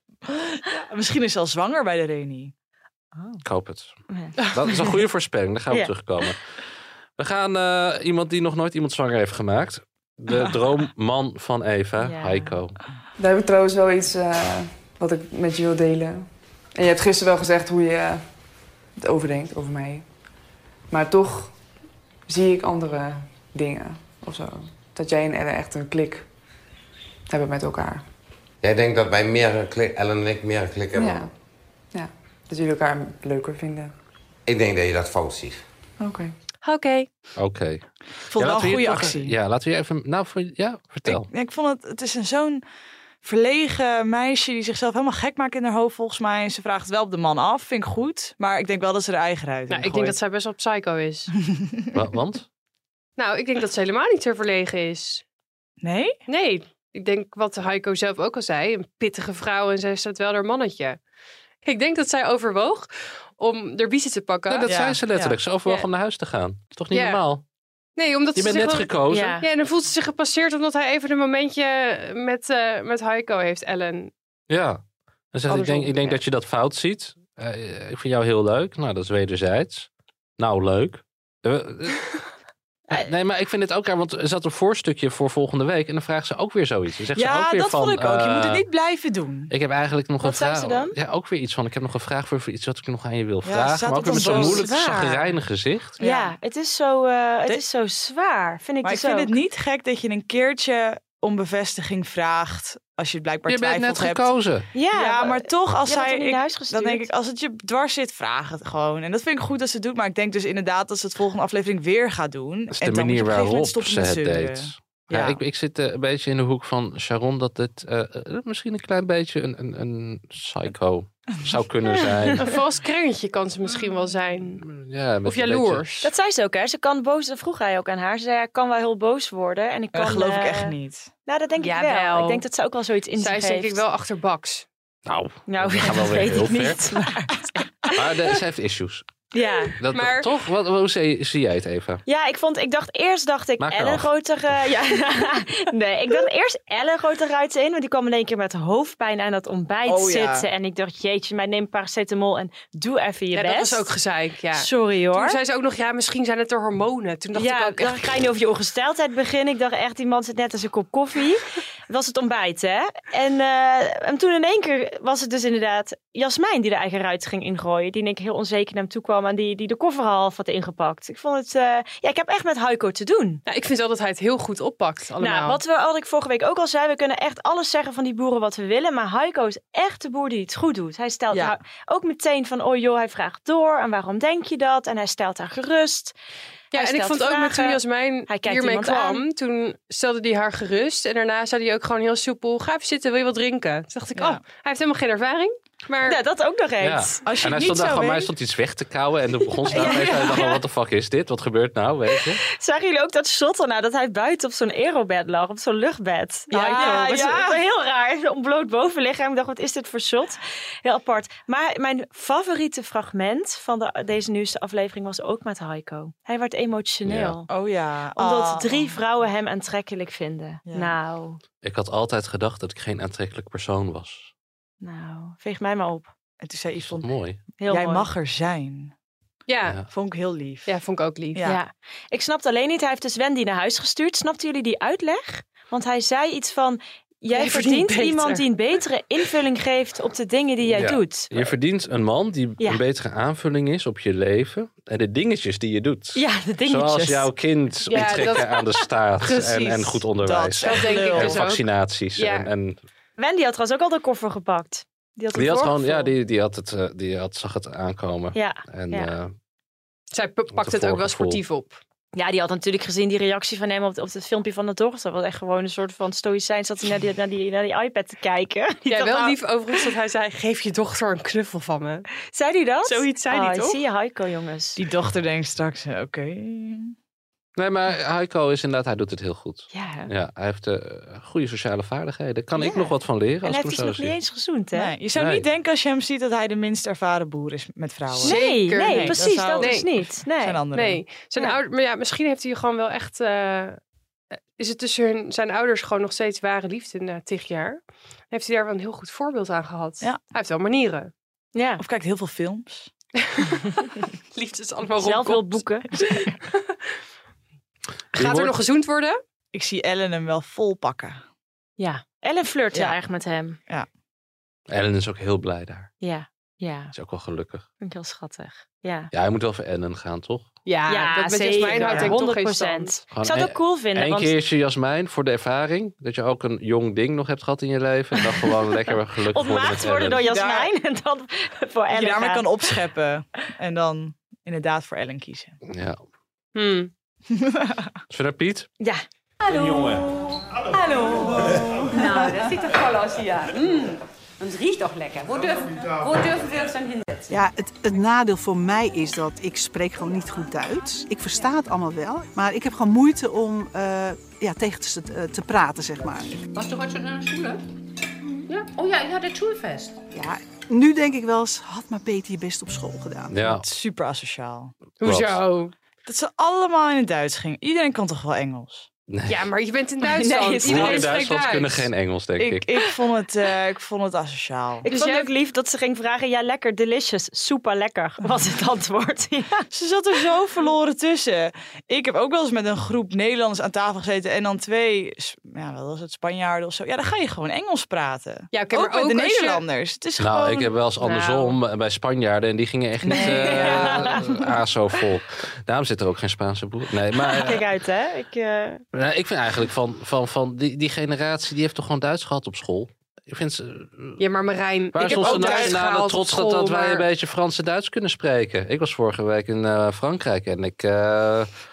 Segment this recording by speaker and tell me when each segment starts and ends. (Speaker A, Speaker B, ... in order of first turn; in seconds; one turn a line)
Speaker A: 0.3-2.5
Speaker B: 3.4-6.4
Speaker C: 4.1-4.9
Speaker B: 7.2-12.8
Speaker C: 12.0-12.6
Speaker D: 13.2-18.2
Speaker D: 19.0-20.1
Speaker D: 20.9-21.6
Speaker D: 22.3-26.3
Speaker D: 27.3-28.0
Speaker E: 28.6-31.2
Speaker D: 31.0-31.3
Speaker D: 31.9-33.9
Speaker E: 34.5-35.6
Speaker D: 36.0-36.3
Speaker F: 36.6-37.1
Speaker B: 37.4-41.3
Speaker A: 38.3-39.4
Speaker A: 41.0-42.6
Speaker A: 43.2-50.2
Speaker F: 49.7-51.3
Speaker A: 51.5-51.8
Speaker B: 51.9-52.5
Speaker F: 53.2-55.2
Speaker A: 55.8-56.1
Speaker F: 56.3-61.0
Speaker F: 61.6-64.7
Speaker B: 64.5-67.4
Speaker A: 64.7-65.4
Speaker F: 66.9-67.2
Speaker F: 68.0-74.1
Speaker B: 68.4-69.3
Speaker C: 69.1-69.5
Speaker B: 74.5-82.1
Speaker F: 75.5-76.2
Speaker B: 82.9-88.7
Speaker A: 87.2-89.5
Speaker B: 89.5-96.0
Speaker C: 90.2-90.9
Speaker A: 93.4-94.7
Speaker C: 94.1-95.3
Speaker A: 96.0-96.3
Speaker C: 96.0-99.4
Speaker A: 98.8-115.4
Speaker B: 103.5-104.7
Speaker C: 104.7-107.1
Speaker B: 112.7-122.5
Speaker C: 121.9-122.3
Speaker F: 122.4-124.7
Speaker B: 124.6-125.9
Speaker F: 125.2-126.1
Speaker C: 126.0-133.8
Speaker A: 129.9-131.1
Speaker F: 131.6-132.4
Speaker F: 133.2-134.7
Speaker B: 135.1-136.8
Speaker C: 135.5-137.2
Speaker A: 136.5-137.9
Speaker B: 137.9-139.1
Speaker C: 139.3-139.8
Speaker B: 139.8-142.0
Speaker F: 139.9-140.3
Speaker C: 142.1-153.9
Speaker B: 143.6-144.1
Speaker A: 149.9-150.5
Speaker F: 153.3-158.2
Speaker C: 154.6-155.4
Speaker C: 157.3-173.4
Speaker F: 173.5-175.6
Speaker C: 175.2-186.2
Speaker A: 181.3-181.6
Speaker C: 186.7-189.2
Speaker F: 186.7-196.2
Speaker A: 194.2-194.4
Speaker C: 196.1-197.2
Speaker B: 196.8-202.4
Speaker A: 197.2-198.3
Speaker C: 199.7-200.6
Speaker A: 199.7-200.3
Speaker C: 202.5-217.5
Speaker A: 206.5-207.6
Speaker B: 217.1-217.3
Speaker A: 217.5-219.0
Speaker C: 218.2-221.4
Speaker A: 220.7-220.9
Speaker B: 221.6-224.3
Speaker C: 224.8-226.1
Speaker A: 226.4-228.9
Speaker B: 226.8-227.4
Speaker C: 227.6-228.1
Speaker F: 229.5-229.8
Speaker A: 229.9-230.8
Speaker F: 230.7-231.4
Speaker A: 231.3-231.6
Speaker C: 231.4-241.5
Speaker F: 237.3-238.5
Speaker B: 240.7-252.8
Speaker C: 246.2-247.3
Speaker F: 247.9-249.7
Speaker C: 247.9-248.2
Speaker A: 249.3-251.5
Speaker F: 250.6-252.5
Speaker C: 253.2-256.1
Speaker B: 255.3-259.4
Speaker C: 258.3-259.1
Speaker F: 260.1-261.8
Speaker B: 260.6-261.4
Speaker C: 262.1-269.4
Speaker F: 268.9-272.1
Speaker C: 272.3-274.8
Speaker F: 273.0-273.2
Speaker A: 274.8-276.9
Speaker B: 277.6-284.2
Speaker C: 279.7-280.1
Speaker C: 282.6-284.9
Speaker A: 284.8-291.0
Speaker B: 285.2-285.4
Speaker F: 288.2-289.9
Speaker C: 288.2-290.6
Speaker F: 290.7-293.8
Speaker F: 294.6-301.1
Speaker C: 301.6-301.8
Speaker A: 301.8-302.9
Speaker F: 303.2-303.5
Speaker F: 304.4-305.6
Speaker C: 305.0-305.9
Speaker A: 305.9-306.3
Speaker F: 306.2-306.5
Speaker B: 308.1-308.6
Speaker F: 308.1-309.2
Speaker A: 309.5-311.2
Speaker C: 311.8-313.6
Speaker B: 314.7-315.9
Speaker C: 316.0-316.9
Speaker B: 316.9-317.7
Speaker C: 317.8-319.1
Speaker B: 319.1-320.5
Speaker F: 320.7-323.0
Speaker C: 320.9-324.3
Speaker A: 321.6-322.2
Speaker B: 323.1-330.2
Speaker C: 329.3-332.5
Speaker A: 330.3-330.7
Speaker A: 331.9-335.6
Speaker B: 335.7-336.0
Speaker F: 336.6-336.9
Speaker A: 337.3-337.9
Speaker B: 338.1-338.7
Speaker G: 339.4-347.3
Speaker H: 347.3-356.4
Speaker G: 356.5-357.6
Speaker G: 358.5-360.0
Speaker H: 360.1-363.5
Speaker B: 363.3-363.6
Speaker A: 363.4-364.7
Speaker F: 365.0-365.7
Speaker B: 365.0-365.4
Speaker A: 366.1-368.9
Speaker B: 369.1-369.5
Speaker F: 369.3-371.9
Speaker C: 370.1-371.1
Speaker B: 370.6-372.6
Speaker A: 372.4-374.9
Speaker C: 374.8-379.7
Speaker F: 374.9-375.3
Speaker A: 379.7-390.8
Speaker F: 388.5-389.6
Speaker B: 390.2-397.7
Speaker C: 391.0-391.5
Speaker A: 393.1-393.8
Speaker C: 393.1-394.2
Speaker C: 397.1-398.8
Speaker B: 398.9-404.2
Speaker F: 404.2-407.1
Speaker B: 404.9-411.5
Speaker A: 405.2-405.8
Speaker C: 405.3-405.6